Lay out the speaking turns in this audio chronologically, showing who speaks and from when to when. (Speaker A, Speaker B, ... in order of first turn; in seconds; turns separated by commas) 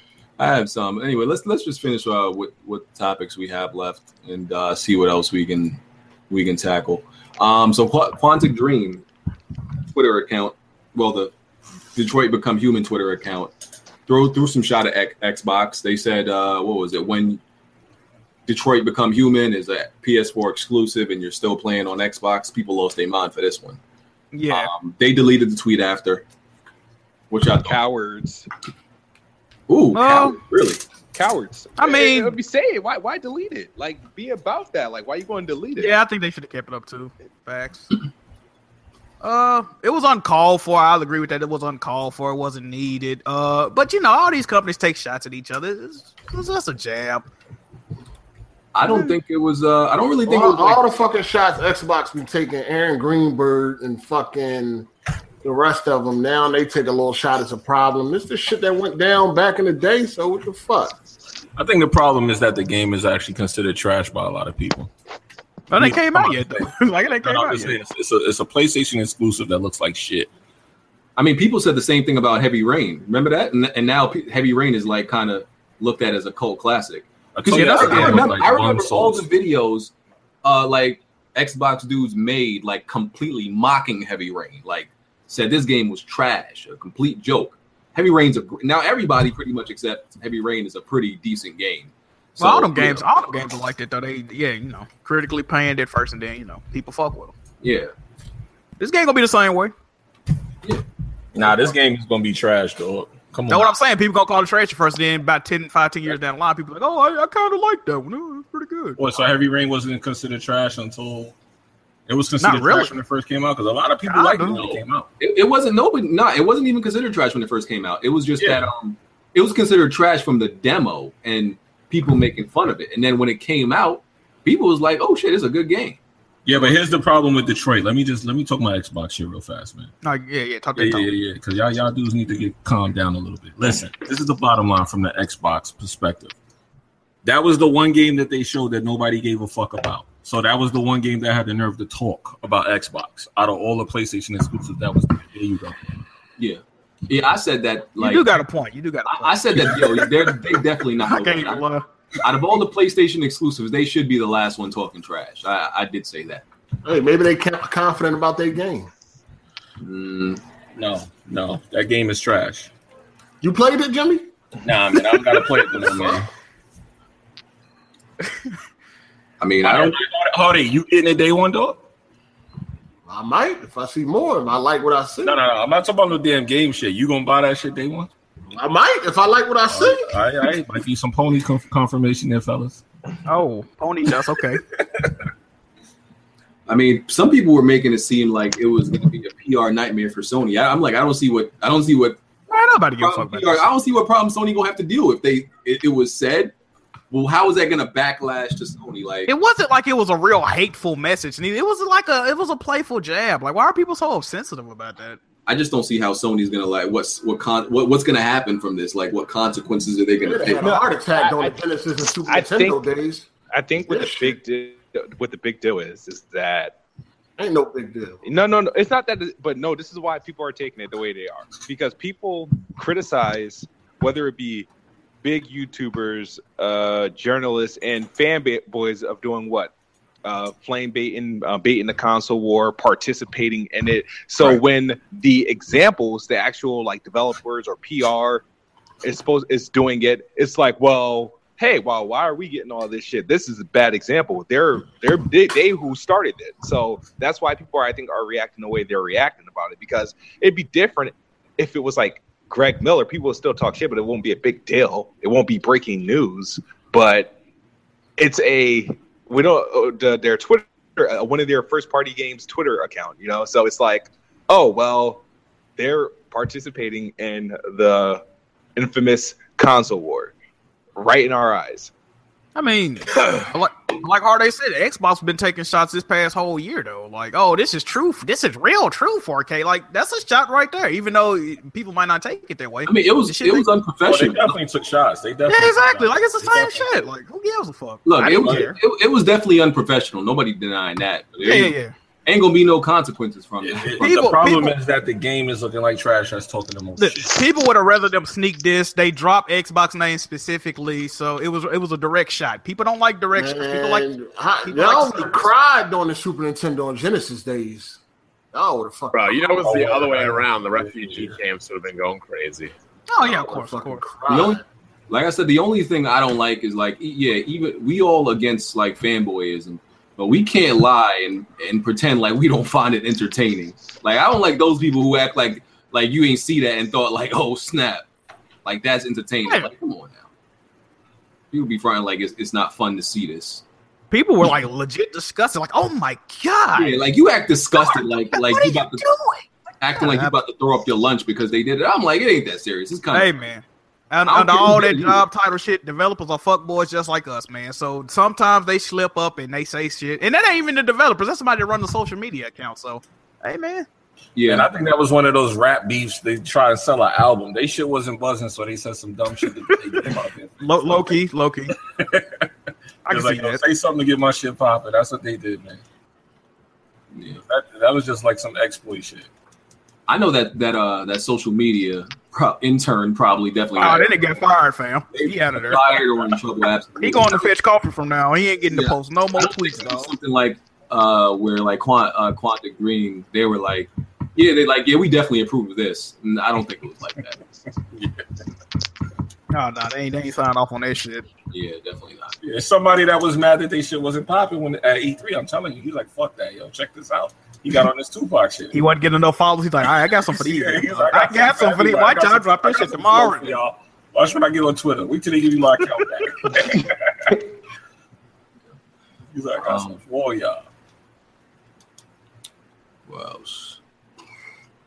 Speaker A: 0.4-5.8, Speaker A: 6.3-9.0, Speaker A: 9.9-11.3, Speaker A: 11.9-13.5, Speaker A: 14.1-17.4, Speaker A: 18.5-23.8, Speaker B: 24.3-24.7, Speaker A: 24.5-26.2, Speaker A: 27.3-27.8, Speaker C: 27.6-28.5, Speaker A: 29.7-30.8, Speaker B: 29.9-30.4, Speaker C: 31.1-35.9, Speaker B: 31.8-32.4, Speaker B: 35.8-37.9, Speaker B: 39.2-47.2, Speaker A: 48.7-50.8, Speaker B: 48.9-49.1, Speaker D: 50.2-54.9, Speaker D: 55.4-60.9, Speaker E: 61.5-64.9, Speaker B: 65.7-67.8, Speaker E: 65.7-66.7, Speaker E: 67.2-70.3, Speaker A: 71.2-79.9, Speaker E: 77.3-79.2, Speaker B: 77.5-78.4, Speaker A: 80.4-93.0, Speaker B: 92.4-97.3, Speaker A: 97.6-97.9, Speaker B: 98.8-99.7, Speaker E: 101.3-103.7, Speaker B: 103.5-109.0, Speaker E: 109.0-111.3, Speaker E: 112.1-115.1, Speaker B: 112.4-113.0, Speaker B: 114.0-114.8, Speaker A: 115.2-126.0, Speaker E: 118.4-118.7, Speaker E: 126.5-129.9, Speaker B: 130.0-131.1, Speaker E: 130.8-136.3, Speaker E: 137.2-145.7, Speaker A: 146.4-148.3, Speaker B: 148.0-150.1, Speaker A: 149.1-151.6, Speaker B: 151.0-151.8, Speaker A: 152.2-156.4, Speaker D: 156.8-158.9, Speaker A: 159.8-160.4, Speaker E: 160.8-162.7, Speaker D: 163.4-164.3, Speaker E: 164.6-166.3, Speaker A: 169.4-169.9, Speaker E: 169.6-171.8, Speaker D: 173.1-175.4, Speaker E: 175.2-178.1, Speaker D: 178.5-180.2, Speaker E: 179.7-182.8, Speaker B: 183.2-184.6, Speaker A: 186.7-192.2, Speaker B: 192.5-193.7, Speaker A: 193.0-196.5, Speaker A: 197.1-199.3, Speaker B: 199.3-205.2, Speaker A: 205.4-210.7, Speaker D: 210.2-213.3, Speaker C: 210.5-211.6, Speaker C: 212.3-212.8, Speaker C: 213.5-216.7, Speaker D: 213.9-214.4, Speaker D: 217.4-218.2, Speaker C: 218.2-224.7, Speaker C: 225.2-229.7, Speaker C: 230.2-238.4, Speaker C: 239.0-257.3, Speaker C: 258.2-265.2, Speaker C: 265.8-268.2, Speaker C: 268.8-270.3, Speaker C: 270.9-271.9, Speaker B: 272.6-283.6, Speaker A: 282.9-284.6, Speaker E: 284.0-287.1, Speaker B: 285.5-288.8, Speaker A: 288.0-291.7, Speaker E: 288.4-288.7, Speaker B: 291.4-291.9, Speaker A: 292.2-294.1, Speaker E: 293.6-297.4, Speaker B: 294.0-294.8, Speaker B: 297.0-304.1, Speaker D: 303.4-308.0, Speaker B: 304.6-305.5, Speaker D: 308.5-309.6, Speaker F: 309.1-312.7, Speaker E: 309.6-311.4, Speaker B: 313.1-314.0, Speaker D: 313.2-314.6, Speaker A: 314.3-328.0, Speaker A: 328.6-330.2, Speaker A: 331.5-333.6, Speaker B: 334.1-337.0, Speaker A: 336.8-339.1, Speaker B: 337.7-340.3, Speaker A: 339.8-343.3, Speaker B: 343.1-353.9, Speaker A: 344.2-345.2, Speaker A: 354.3-354.7, Speaker E: 354.4-361.2, Speaker B: 360.6-361.8, Speaker E: 362.0-362.5, Speaker B: 363.1-363.6, Speaker E: 363.1-365.8, Speaker A: 367.1-367.4, Speaker E: 367.4-369.3, Speaker A: 370.1-374.3, Speaker B: 373.8-376.0, Speaker A: 375.1-377.5, Speaker B: 377.0-380.1, Speaker A: 378.7-387.4, Speaker E: 387.9-388.2, Speaker B: 389.5-391.2, Speaker A: 391.5-392.4, Speaker E: 392.4-398.8, Speaker B: 398.7-403.6, Speaker E: 400.3-407.4, Speaker E: 409.3-410.6, Speaker A: 409.6-410.0, Speaker A: 413.1-413.8